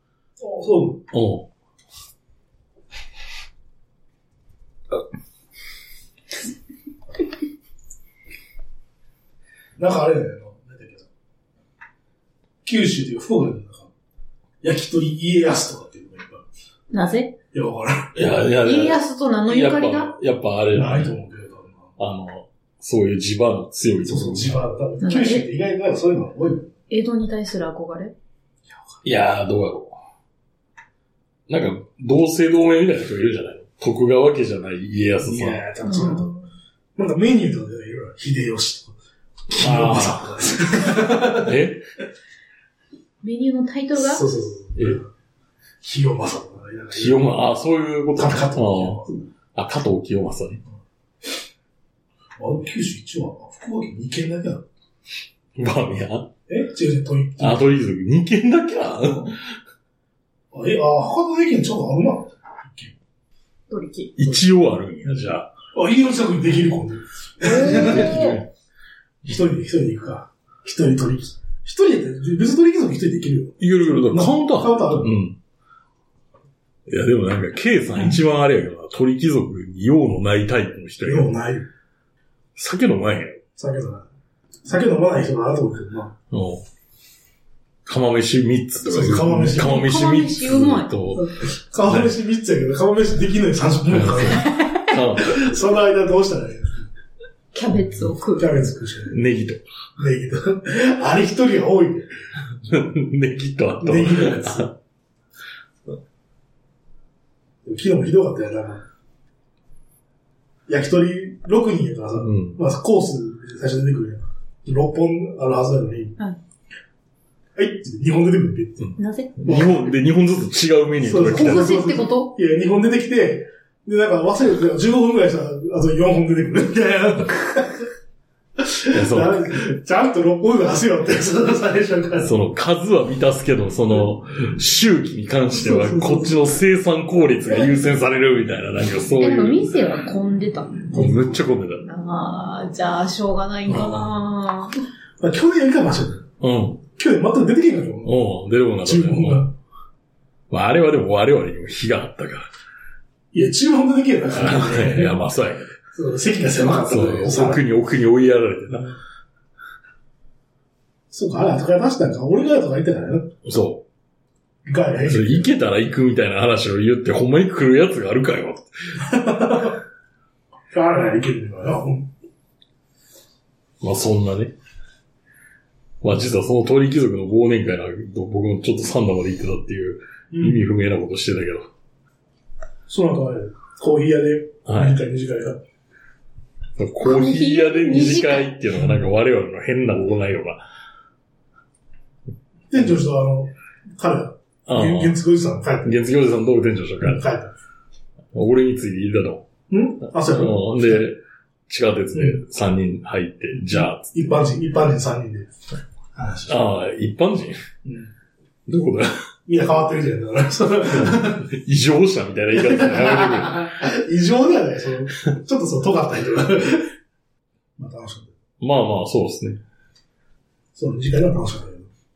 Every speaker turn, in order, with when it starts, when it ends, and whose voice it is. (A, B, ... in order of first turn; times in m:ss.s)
0:00.4-0:01.0 A
0:01.1-0:01.5 B
0:09.8-0:11.1 A
0:12.6-0:13.9 A
0:14.6-0:16.4 A
0:16.9-0:17.3 C
0:17.5-0:18.1 A
0:18.1-0:21.1 B
0:18.6-0:20.1 C
0:20.7-0:21.9 A
0:22.0-0:24.6 B
0:24.0-0:26.7 A
0:25.0-0:25.5 C
0:26.9-0:28.1 C
0:29.0-0:30.0 B
0:31.5-0:35.6 B
0:35.2-0:36.3 A
0:35.8-0:36.4 C
0:37.0-0:39.0 A
0:39.5-0:41.5 A
0:39.5-0:41.8 B
0:43.2-0:44.2 C
0:44.0-0:45.1 A
0:45.8-0:47.2 A
0:46.9-0:50.6 B
0:48.2-0:49.2 A
0:52.4-0:54.6 A
0:55.6-0:56.3 B
0:56.5-0:57.8 A
0:57.4-0:59.5 B
1:00.5-1:02.9 A
1:03.7-1:04.2 C
1:04.2-1:05.5 B
1:05.7-1:08.4 A
1:07.4-1:08.4 C
1:07.5-1:08.4 B
1:09.2-1:15.2 A
1:13.6-1:15.4 B
1:16.9-1:21.4 B
1:21.0-1:21.7 A
1:22.6-1:23.4 B
1:23.6-1:24.1 A
1:24.6-1:26.1 A
1:26.3-1:26.6 B
1:27.8-1:31.3 B
1:28.8-1:29.9 A
1:29.5-1:30.9 C
1:31.2-1:34.7 A
1:31.8-1:32.1 B
1:33.9-1:35.6 B
1:34.4-1:34.9 C
1:35.2-1:36.8 A
1:37.5-1:38.5 C
1:37.9-1:39.2 A
1:39.1-1:39.6 B
1:40.0-1:42.1 A
1:42.6-1:44.7 B
1:43.8-1:44.8 A
1:47.6-1:48.8 A
1:50.7-1:56.2 A
1:52.2-1:52.6 B
1:57.6-1:59.9 A
1:58.8-2:01.7 B
1:59.0-1:59.3 C
2:01.0-2:07.8 A
2:01.2-2:02.3 C
2:08.6-2:12.3 A
2:08.9-2:09.6 B
2:12.2-2:19.7 B
2:15.5-2:16.4 A
2:19.2-2:20.8 C
2:20.9-2:21.5 A
2:20.9-2:21.8 B
2:21.8-2:24.7 C
2:23.7-2:24.1 A
2:25.2-2:26.3 A
2:26.4-2:26.8 B
2:27.0-2:28.2 A
2:28.0-2:29.5 B
2:28.8-2:29.5 A
2:30.5-2:32.5 B
2:33.3-2:35.2 A
2:34.3-2:35.7 B
2:35.9-2:37.6 A
2:36.8-2:38.9 B
2:41.1-2:43.3 A
2:43.4-2:43.8 B
2:44.6-2:45.5 A
2:45.0-2:48.9 B
2:49.0-2:49.8 A
2:50.7-2:52.1 A
2:53.8-2:54.5 B
2:56.0-3:01.7 B
3:00.3-3:00.6 A
3:02.9-3:05.6 A
3:04.6-3:05.0 B
3:06.8-3:10.6 B
3:07.0-3:08.6 C
3:12.7-3:16.0 A
3:14.7-3:15.2 B
3:15.8-3:17.2 B
3:17.0-3:17.5 A
3:18.3-3:19.5 B
3:19.7-3:21.0 A
3:20.2-3:24.1 B
3:22.1-3:22.4 A
3:23.6-3:25.5 A
3:26.1-3:26.6 A
3:26.5-3:27.6 B
3:27.8-3:28.1 A
3:28.7-3:29.2 B
3:29.5-3:31.5 A
3:30.9-3:33.7 B
3:32.6-3:36.9 A
3:37.8-3:38.3 A
3:38.6-3:39.6 B
3:40.7-3:41.9 A